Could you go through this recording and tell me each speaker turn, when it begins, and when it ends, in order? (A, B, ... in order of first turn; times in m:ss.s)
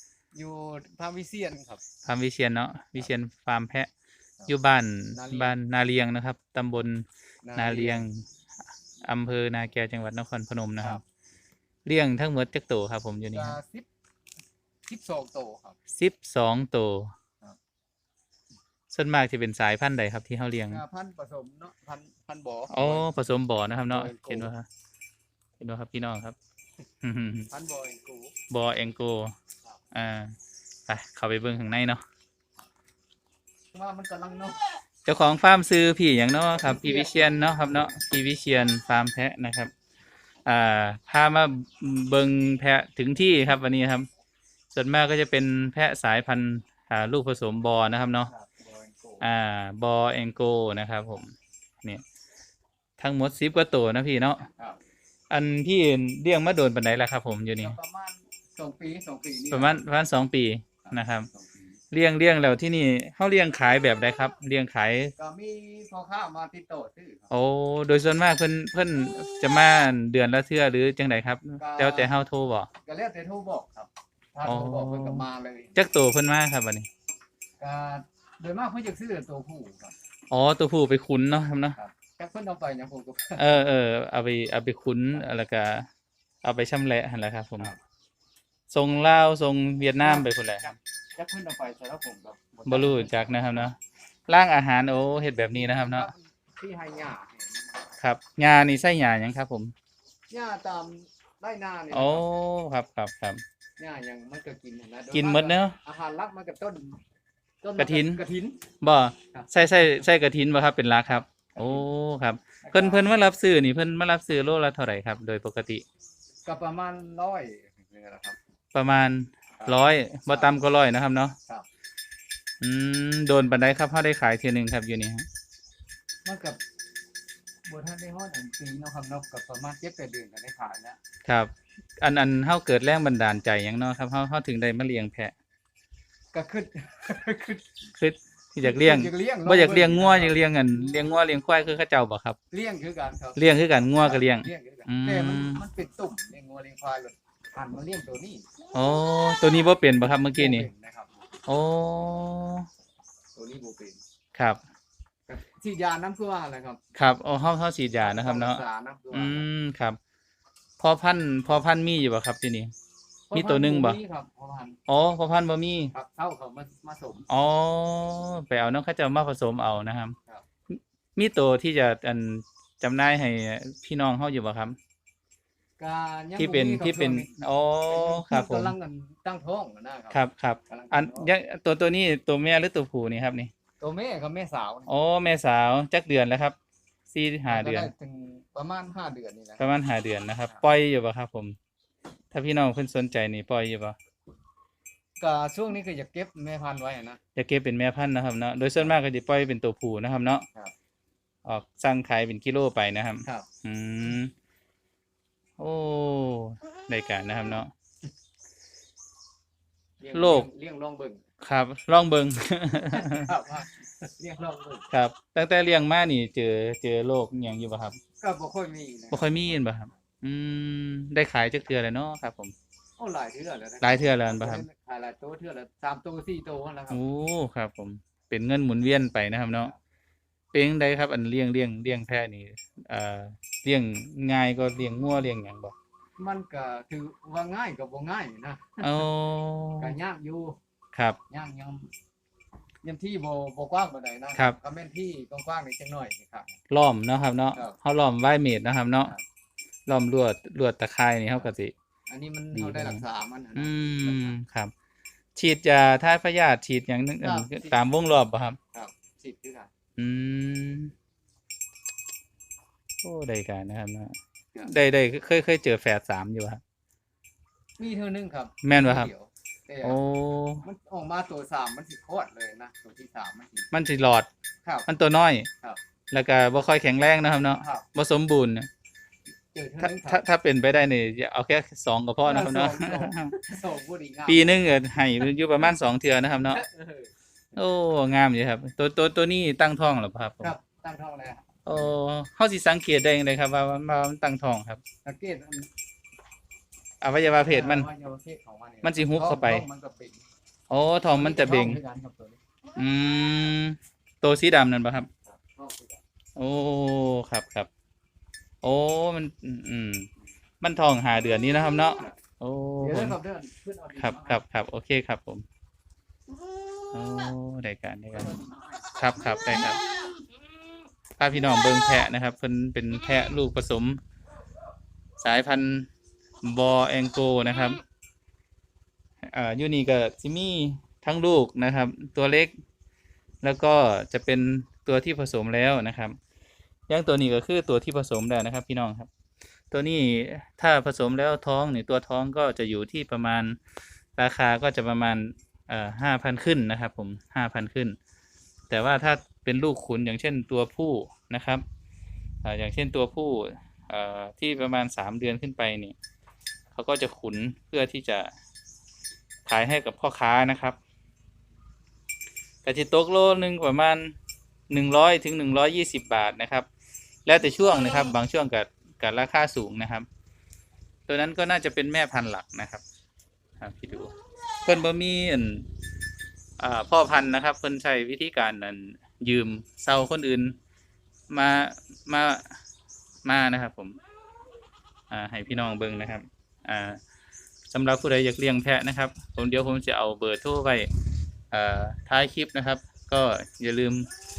0:00.3-0:01.8 A
0:02.0-0:03.9 B
0:04.5-0:07.0 B
0:05.1-0:05.6 A
0:07.4-0:08.0 A
0:07.6-0:08.2 B
0:09.0-0:11.0 B
0:11.8-0:13.6 B
0:13.3-0:13.9 A
0:14.9-0:15.8 A
0:15.9-0:17.1 B
0:18.9-0:20.8 B
0:20.7-0:23.1 A
0:22.7-0:24.7 B
0:23.9-0:24.5 A
0:25.6-0:26.4 B
0:27.0-0:27.5 B
0:27.5-0:28.3 A
0:28.5-0:29.4 B
0:29.9-0:30.4 B
0:30.9-0:32.0 B
0:33.7-0:34.6 A
0:35.0-0:39.7 B
0:36.6-0:37.9 A
0:40.5-0:44.1 B
0:44.7-0:48.3 B
0:48.3-0:49.3 A
0:49.2-0:51.3 B
0:53.0-0:54.5 B
0:55.3-0:57.8 B
0:57.6-0:59.8 A
0:59.5-1:01.3 B
1:00.8-1:01.6 A
1:01.9-1:05.1 B
1:05.2-1:07.3 A
1:07.3-1:12.7 B
1:11.6-1:12.2 A
1:12.8-1:15.8 A
1:14.4-1:16.9 B
1:17.6-1:19.9 A
1:20.3-1:21.8 B
1:21.8-1:23.4 A
1:23.4-1:25.9 B
1:26.4-1:27.7 B
1:28.7-1:30.8 B
1:30.0-1:30.3 A
1:31.2-1:33.4 A
1:32.7-1:33.8 B
1:34.3-1:36.1 B
1:35.5-1:37.9 A
1:38.0-1:39.7 B
1:40.3-1:42.3 A
1:41.9-1:43.4 B
1:43.8-1:47.0 A
1:45.1-1:45.8 B
1:47.6-1:48.6 A
1:47.8-1:48.2 B
1:48.8-1:55.8 B
1:51.6-1:51.8 A
1:52.6-1:53.1 A
1:56.4-1:58.4 A
1:58.7-2:01.4 B
2:02.6-2:05.3 B
2:06.2-2:06.6 A
2:07.6-2:11.0 A
2:11.2-2:15.3 B
2:16.3-2:17.6 A
2:18.0-2:22.4 B
2:18.6-2:20.5 A
2:22.5-2:28.4 A
2:23.4-2:25.6 B
2:28.7-2:30.7 B
2:30.1-2:31.2 A
2:31.5-2:32.7 B
2:33.4-2:34.0 A
2:35.3-2:36.8 A
2:37.0-2:40.0 B
2:38.0-2:39.5 A
2:40.8-2:42.7 B
2:43.3-2:44.8 A
2:43.3-2:44.0 B
2:44.9-2:45.9 B
2:45.9-2:47.3 A
2:47.3-2:50.2 B
2:50.7-2:54.8 B
2:55.8-3:01.3 A
2:56.4-2:58.8 B
3:00.1-3:03.5 B
3:03.8-3:04.9 A
3:04.9-3:06.6 B
3:07.1-3:07.9 B
3:07.5-3:09.6 A
3:09.6-3:11.6 B
3:12.3-3:14.0 B
3:15.2-3:17.2 A
3:17.4-3:20.5 B
3:21.4-3:24.3 B
3:25.6-3:27.7 B
3:30.0-3:31.2 A
3:30.1-3:30.5 B
3:31.4-3:33.3 B
3:32.9-3:34.9 A
3:34.9-3:38.0 B
3:38.2-3:39.7 A
3:39.1-3:42.5 B
3:43.0-3:47.0 A
3:43.8-3:44.7 B
3:46.9-3:49.7 B
3:50.5-3:55.8 B
3:56.2-3:59.1 A
3:58.8-3:59.9 B
3:59.8-4:00.6 A
4:00.9-4:01.2 B
4:01.3-4:01.9 A
4:02.8-4:06.6 A
4:06.7-4:09.2 B
4:09.9-4:11.7 B
4:12.1-4:14.4 A
4:12.5-4:13.0 B
4:13.6-4:14.7 B
4:15.4-4:18.6 B
4:17.2-4:17.8 A
4:18.7-4:19.7 A
4:20.0-4:20.9 B
4:23.0-4:26.6 B
4:27.8-4:30.0 A
4:28.6-4:29.1 B
4:29.8-4:30.6 B
4:30.6-4:33.7 A
4:33.7-4:34.3 B
4:34.9-4:35.5 B
4:36.1-4:38.7 B
4:37.6-4:37.9 A
4:39.5-4:40.2 A
4:39.8-4:43.4 B
4:42.2-4:44.8 A
4:44.3-4:46.6 B
4:46.4-4:47.1 A
4:47.6-4:50.6 B
4:50.4-4:51.5 A
4:51.6-4:54.8 B
4:55.0-4:55.7 A
4:57.0-4:57.9 B
4:57.4-5:00.2 A
4:58.8-4:59.7 B
5:00.7-5:01.8 B
5:01.1-5:02.4 A
5:02.8-5:05.1 B
5:05.3-5:06.0 A
5:06.4-5:07.7 B
5:08.6-5:10.1 B
5:10.6-5:13.2 B
5:12.8-5:14.4 A
5:14.0-5:15.4 B
5:16.9-5:18.4 B
5:18.2-5:18.5 A
5:19.0-5:19.8 B
5:21.2-5:24.0 B
5:25.2-5:25.9 B
5:26.4-5:27.8 B
5:29.2-5:32.5 B
5:33.4-5:36.2 B
5:36.9-5:39.1 B
5:39.7-5:43.6 B
5:44.2-5:48.0 B
5:48.7-5:51.6 B
5:52.4-5:56.0 B
5:56.7-5:58.3 B
5:59.5-6:00.8 B
6:02.6-6:04.2 B
6:04.7-6:06.7 B
6:07.3-6:10.1 B
6:11.1-6:12.8 B
6:13.6-6:15.7 B
6:16.6-6:20.6 B
6:21.3-6:22.6 B
6:23.2-6:24.0 B
6:25.1-6:27.0 B
6:27.7-6:30.9 B
6:31.5-6:34.1 B